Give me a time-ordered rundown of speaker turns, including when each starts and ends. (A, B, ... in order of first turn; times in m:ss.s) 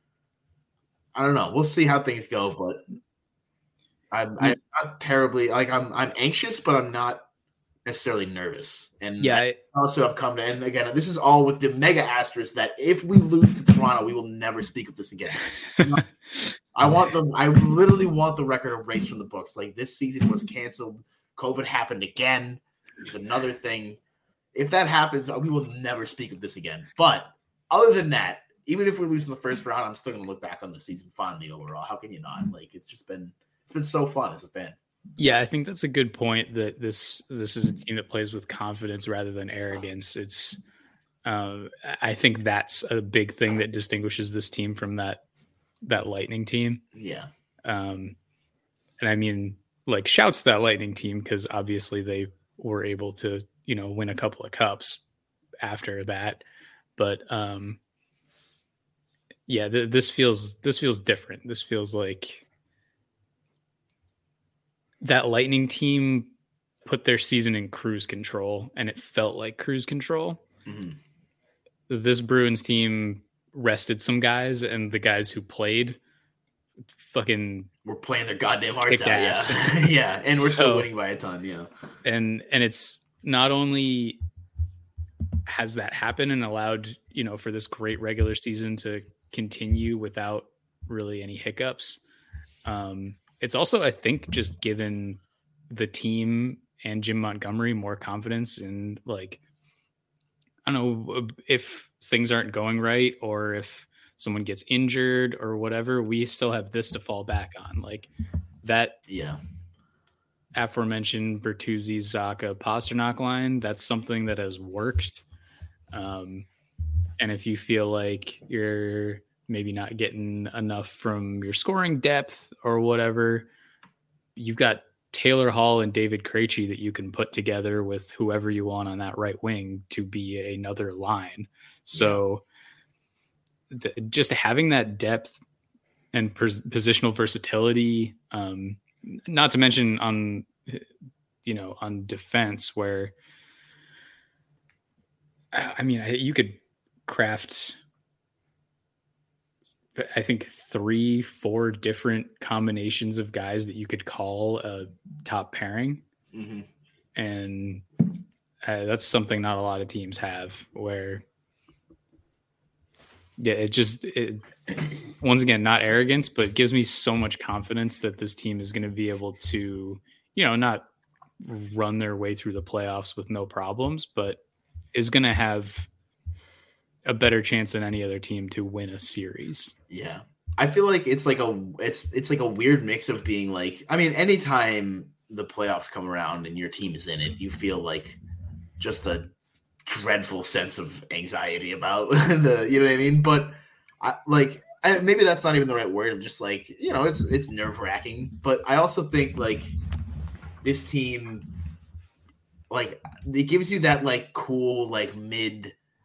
0:01.1-0:02.8 A
0:04.1-0:07.2 A
0:07.8-0:16.0 A
0:09.2-0:09.6 B
0:16.7-0:24.0 A
0:24.5-0:34.8 A
0:35.2-0:40.6 B
0:41.2-0:45.2 B
0:45.8-0:46.8 B
0:46.9-0:47.3 A
0:47.6-0:48.2 B
0:49.0-0:55.0 B
0:55.6-0:56.4 B
0:57.0-0:57.8 B
0:59.5-1:02.4 B
1:05.0-1:06.3 B
1:06.8-1:10.4 B
1:10.6-1:11.0 A
1:11.9-1:16.0 B
1:17.0-1:17.7 B
1:17.8-1:21.7 A
1:18.9-1:19.7 B
1:20.4-1:20.9 B
1:22.0-1:24.2 B
1:25.4-1:32.0 B
1:32.6-1:39.4 B
1:40.6-1:48.1 B
1:48.6-1:49.0 B
1:49.1-1:49.4 A
1:50.6-1:55.2 B
1:55.9-1:56.4 B
1:57.2-2:03.5 B
2:04.4-2:12.4 B
2:11.9-2:12.2 A
2:13.7-2:15.4 B
2:16.1-2:20.8 B
2:21.4-2:23.1 B
2:25.5-2:27.8 B
2:30.0-2:36.0 B
2:36.3-2:36.7 A
2:37.2-2:37.8 B
2:38.6-2:41.2 B
2:43.4-2:44.4 B
2:45.1-2:50.9 B
2:51.4-2:54.4 B
2:54.9-2:55.9 B
2:57.0-2:59.7 B
2:59.9-3:08.2 A
3:08.8-3:09.3 A
3:09.8-3:19.7 A
3:20.6-3:21.5 A
3:22.7-3:25.7 A